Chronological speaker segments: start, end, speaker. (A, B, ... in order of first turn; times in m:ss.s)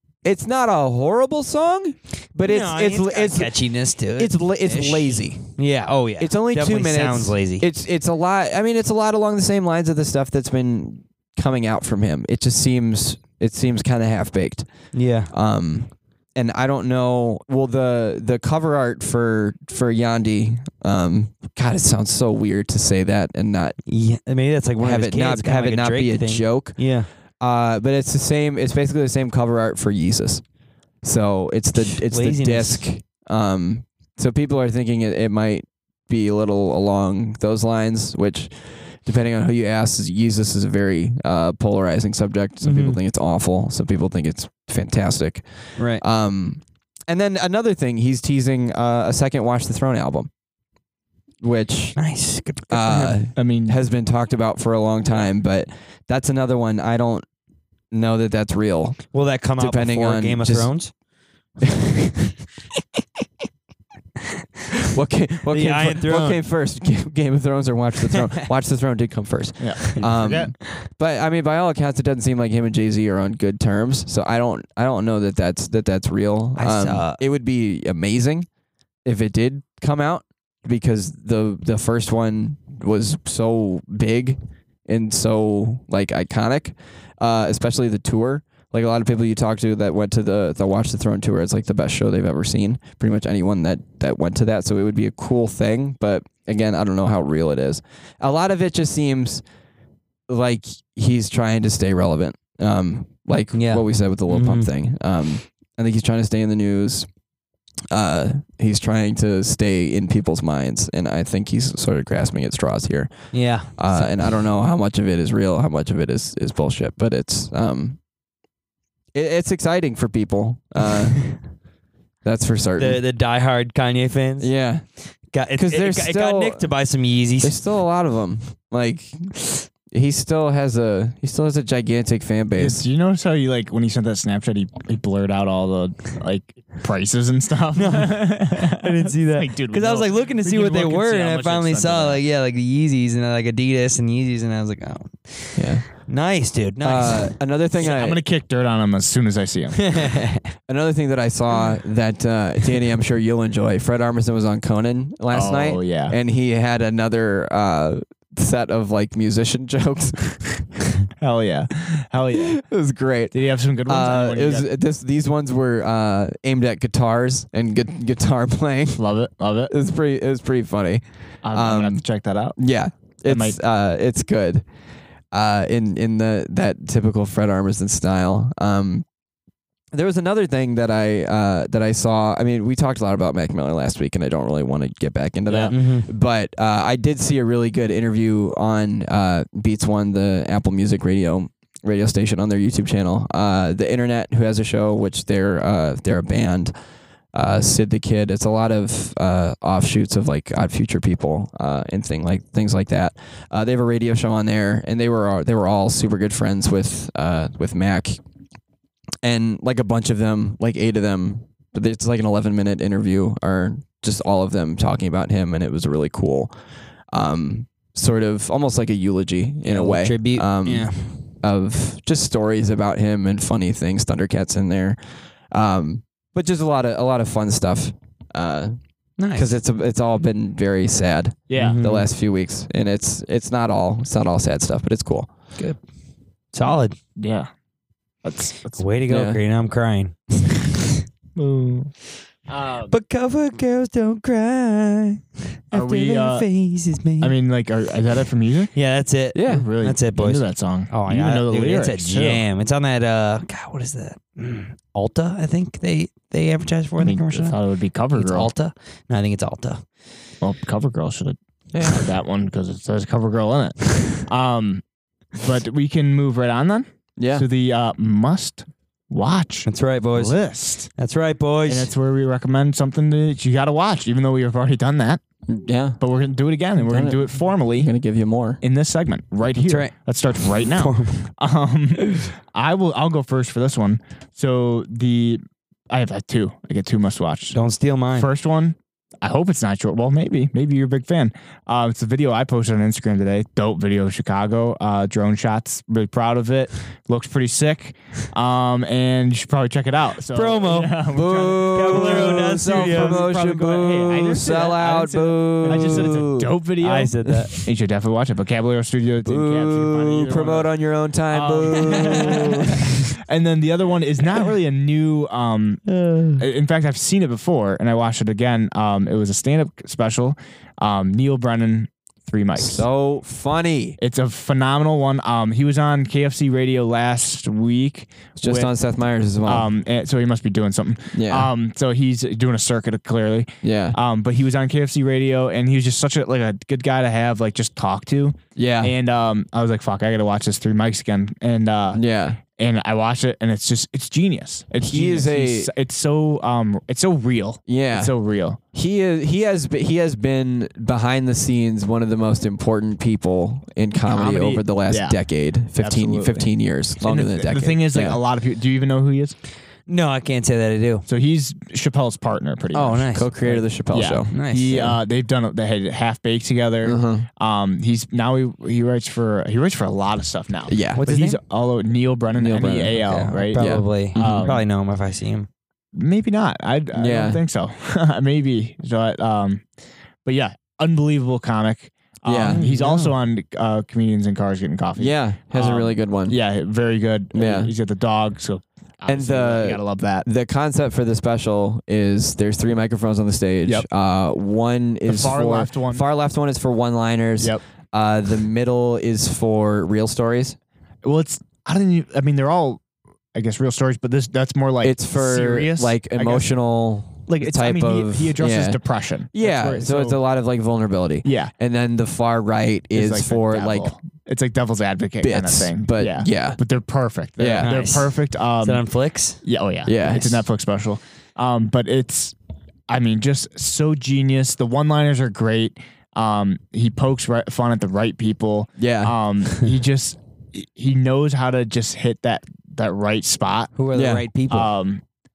0:00.2-0:03.6 A
0:02.4-0:07.6 B
0:04.2-0:05.5 A
0:06.2-0:14.7 A
0:14.9-0:15.3 B
0:15.3-0:23.8 A
0:23.8-0:27.1 B
0:24.8-0:26.9 A
0:27.4-0:30.4 A
0:31.0-0:50.3 A
0:31.8-0:32.8 B
0:42.6-0:43.0 B
0:45.8-0:46.0 B
0:51.4-0:52.0 A
0:52.0-0:53.0 B
0:52.7-0:57.2 A
0:52.9-0:53.8 C
0:57.9-1:00.7 A
0:59.1-1:00.9 B
1:01.6-1:02.1 A
1:04.9-1:18.5 A
1:05.5-1:06.4 B
1:08.2-1:08.4 B
1:09.6-1:10.5 C
1:16.6-1:17.2 B
1:19.0-1:39.4 A
1:40.3-1:47.1 A
1:43.5-1:44.7 B
1:47.9-1:58.0 A
1:53.3-1:54.1 B
1:59.1-2:01.4 A
2:02.2-2:03.0 A
2:02.8-2:04.5 B
2:04.4-2:04.8 A
2:05.3-2:07.5 B
2:05.6-2:06.7 A
2:07.4-2:12.8 A
2:12.5-2:22.2 C
2:17.8-2:27.3 B
2:25.6-2:25.9 A
2:26.8-2:28.2 A
2:27.8-2:29.8 C
2:29.8-2:30.4 B
2:30.7-2:40.6 A
2:35.3-2:36.2 C
2:41.2-2:42.6 C
2:42.3-2:43.3 A
2:43.3-2:44.7 C
2:43.8-2:49.0 A
2:49.0-2:49.7 C
2:49.7-2:52.0 A
2:51.4-2:52.6 C
2:52.6-2:54.6 A
2:53.2-2:53.6 C
2:55.3-2:59.0 A
2:59.9-3:16.7 A
3:05.5-3:05.7 C
3:05.7-3:06.1 B
3:17.3-3:28.2 A
3:29.2-3:36.5 A
3:37.1-3:45.0 A
3:39.6-3:41.2 B
3:45.5-3:48.7 A
3:49.2-3:49.6 B
3:49.3-3:55.3 A
3:51.5-3:51.8 C
3:51.6-3:52.1 B
3:56.5-3:57.0 B
3:57.2-3:57.5 C
3:58.2-3:58.8 C
3:58.8-4:00.1 B
3:59.1-3:59.4 A
4:01.4-4:01.9 C
4:02.5-4:02.9 C
4:02.8-4:07.3 B
4:05.7-4:06.5 C
4:07.2-4:08.7 C
4:08.7-4:17.6 B
4:09.3-4:09.7 A
4:09.4-4:12.4 C
4:17.0-4:18.5 C
4:18.1-4:19.8 B
4:20.4-4:24.8 C
4:21.7-4:22.1 A
4:25.4-4:30.9 C
4:27.2-4:27.4 A
4:29.6-4:30.4 B
4:31.0-4:31.9 B
4:31.7-4:35.2 C
4:35.5-4:36.0 A
4:36.0-4:37.9 C
4:36.8-4:38.6 A
4:38.6-4:47.6 C
4:39.6-4:39.9 B
4:40.5-4:41.3 B
4:47.5-4:48.3 B
4:48.1-5:10.7 C
5:00.3-5:01.0 B
5:01.1-5:06.5 A
5:01.7-5:03.2 B
5:05.7-5:06.2 B
5:06.8-5:07.5 B
5:09.2-5:13.0 A
5:11.3-5:15.8 C
5:11.8-5:12.7 B
5:15.9-5:16.4 B
5:16.4-5:22.8 C
5:22.6-5:24.0 A
5:24.0-5:28.7 C
5:28.4-5:29.7 A
5:29.4-5:48.6 C
5:31.1-5:31.5 A
5:33.6-5:34.0 A
5:38.6-5:38.9 A
5:41.9-5:42.4 A
5:44.8-5:45.7 A
5:47.7-5:48.1 A
5:48.7-5:58.2 A
5:54.0-5:55.2 C
5:55.8-5:59.4 C
5:59.9-6:01.0 B
6:01.1-6:03.1 C
6:02.7-6:03.6 B
6:02.9-6:04.3 A
6:03.9-6:14.6 C
6:04.3-6:05.0 B
6:06.8-6:07.2 A
6:10.7-6:11.0 A
6:11.0-6:11.4 B
6:12.3-6:13.0 A
6:13.0-6:15.5 B
6:13.5-6:14.5 A
6:15.9-6:19.6 C
6:16.9-6:17.4 A
6:20.2-6:30.2 C
6:22.2-6:22.6 A
6:22.4-6:23.1 B
6:25.0-6:26.4 A
6:27.3-6:27.7 A
6:29.1-6:40.6 A
6:35.1-6:36.0 C
6:41.0-6:42.8 C
6:43.3-6:46.5 C
6:44.8-6:48.8 A
6:47.3-6:50.2 C
6:49.3-6:53.9 A
6:51.2-6:51.5 C
6:52.9-6:58.8 C
6:55.2-6:56.6 A
6:57.4-6:57.7 A
6:57.6-6:59.4 B
6:59.4-7:02.3 C
6:59.8-7:00.4 A
7:02.9-7:13.7 C
7:08.8-7:09.1 A
7:13.8-7:14.7 B
7:13.9-7:14.2 A
7:14.5-7:15.0 C